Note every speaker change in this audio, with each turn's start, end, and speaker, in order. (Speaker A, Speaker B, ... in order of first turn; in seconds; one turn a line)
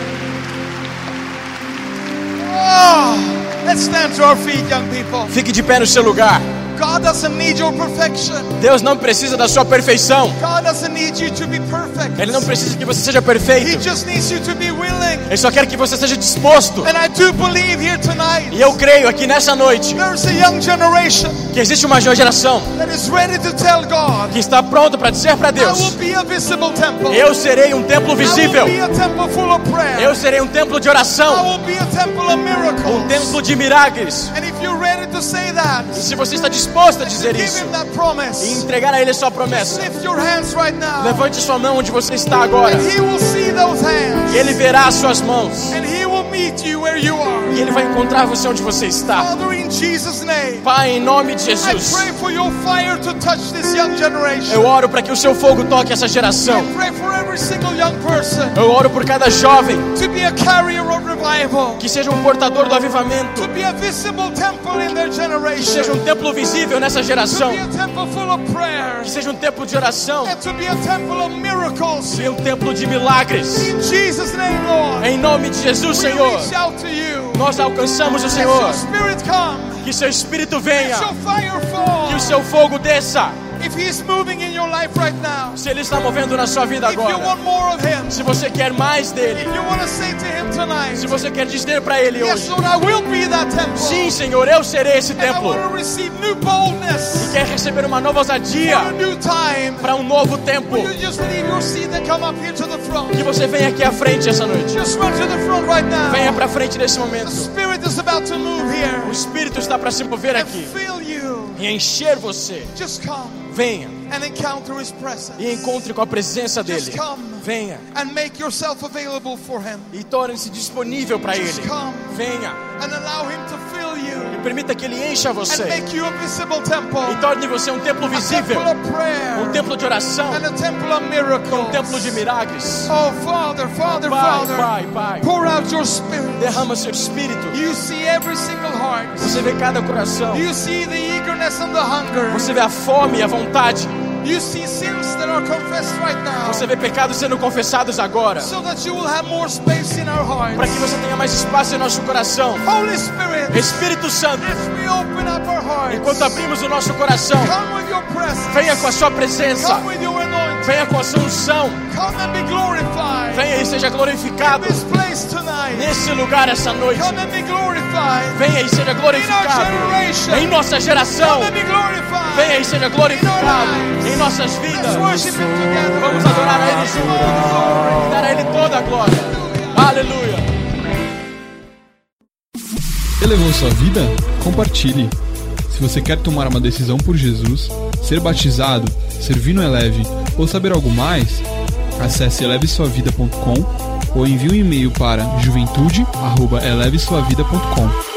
Speaker A: 2.4-5.4
Speaker B: 5.3-6.4
Speaker A: 6.7-8.6
Speaker B: 8.6-10.4
Speaker A: 10.3-12.5
Speaker B: 12.2-13.9
Speaker A: 13.5-15.3
Speaker B: 15.3-16.9
Speaker A: 16.8-18.8
Speaker B: 18.5-20.0
Speaker A: 19.9-21.5
Speaker B: 21.5-22.7
Speaker A: 22.7-24.4
Speaker B: 24.3-26.0
Speaker A: 25.6-27.3
Speaker B: 27.1-28.8
Speaker A: 28.2-30.2
Speaker B: 29.9-31.5
Speaker A: 31.3-33.4
Speaker B: 32.8-34.3
Speaker A: 34.3-36.1
Speaker B: 35.9-37.7
Speaker A: 37.0-38.6
Speaker B: 38.4-39.9
Speaker A: 39.5-41.3
Speaker B: 41.0-42.9
Speaker A: 42.6-44.6
Speaker B: 44.3-45.8
Speaker A: 45.7-47.6
Speaker B: 47.5-49.3
Speaker A: 49.1-50.7
Speaker B: 50.6-52.1
Speaker A: 51.6-54.7
Speaker B: 54.5-56.7
Speaker A: 56.5-58.6
Speaker B: 58.5-59.9
Speaker A: 59.9-61.9
Speaker B: 61.8-63.5
Speaker A: 63.3-66.0
Speaker B: 65.5-67.6
Speaker A: 67.2-69.2
Speaker B: 69.0-70.4
Speaker A: 70.2-72.3
Speaker B: 72.1-73.7
Speaker A: 73.5-75.1
Speaker B: 75.0-76.5
Speaker A: 75.9-77.5
Speaker B: 77.3-78.8
Speaker A: 78.2-79.9
Speaker B: 79.8-81.1
Speaker A: 80.7-82.4
Speaker B: 82.0-83.4
Speaker A: 83.5-85.6
Speaker B: 85.5-87.4
Speaker A: 86.8-88.3
Speaker B: 88.1-89.5
Speaker A: 89.3-91.1
Speaker B: 90.9-92.5
Speaker A: 92.2-94.2
Speaker B: 93.8-95.6
Speaker A: 95.1-97.4
Speaker B: 97.2-99.0
Speaker A: 98.5-99.9
Speaker B: 99.8-100.9
Speaker A: 100.7-103.3
Speaker B: 103.1-104.8
Speaker A: 104.6-106.5
Speaker B: 106.1-107.5
Speaker A: 107.2-109.2
Speaker B: 109.0-110.7
Speaker A: 110.3-111.6
Speaker B: 111.5-112.7
Speaker A: 112.7-113.5
Speaker B: 113.5-114.0
Speaker A: 114.0-115.8
Speaker B: 115.4-117.8
Speaker A: 116.6-120.0
Speaker B: 119.9-122.6
Speaker A: 121.3-124.5
Speaker B: 124.3-125.9
Speaker A: 125.5-127.2
Speaker B: 127.0-128.7
Speaker A: 128.1-129.7
Speaker B: 129.3-130.4
Speaker A: 130.3-132.2
Speaker B: 131.5-132.9
Speaker A: 132.8-136.7
Speaker B: 134.0-135.3
Speaker B: 136.4-137.6
Speaker A: 137.5-139.5
Speaker B: 139.2-140.5
Speaker A: 140.3-142.6
Speaker B: 142.3-143.9
Speaker A: 144.2-146.7
Speaker B: 146.4-148.5
Speaker A: 148.4-150.9
Speaker B: 150.5-152.7
Speaker A: 152.6-156.4
Speaker B: 153.5-154.6
Speaker B: 155.9-157.6
Speaker A: 157.3-159.0
Speaker B: 158.5-159.9
Speaker A: 159.5-160.9
Speaker B: 160.6-161.8
Speaker A: 161.9-163.5
Speaker B: 163.3-164.9
Speaker A: 164.4-166.0
Speaker B: 165.7-167.2
Speaker A: 166.9-168.4
Speaker B: 168.3-171.6
Speaker A: 169.1-170.5
Speaker A: 171.1-178.1
Speaker B: 172.3-175.3
Speaker B: 176.0-180.5
Speaker A: 179.0-179.9
Speaker C: 183.2-185.1
Speaker C: 185.7-191.4
Speaker C: 192.0-198.0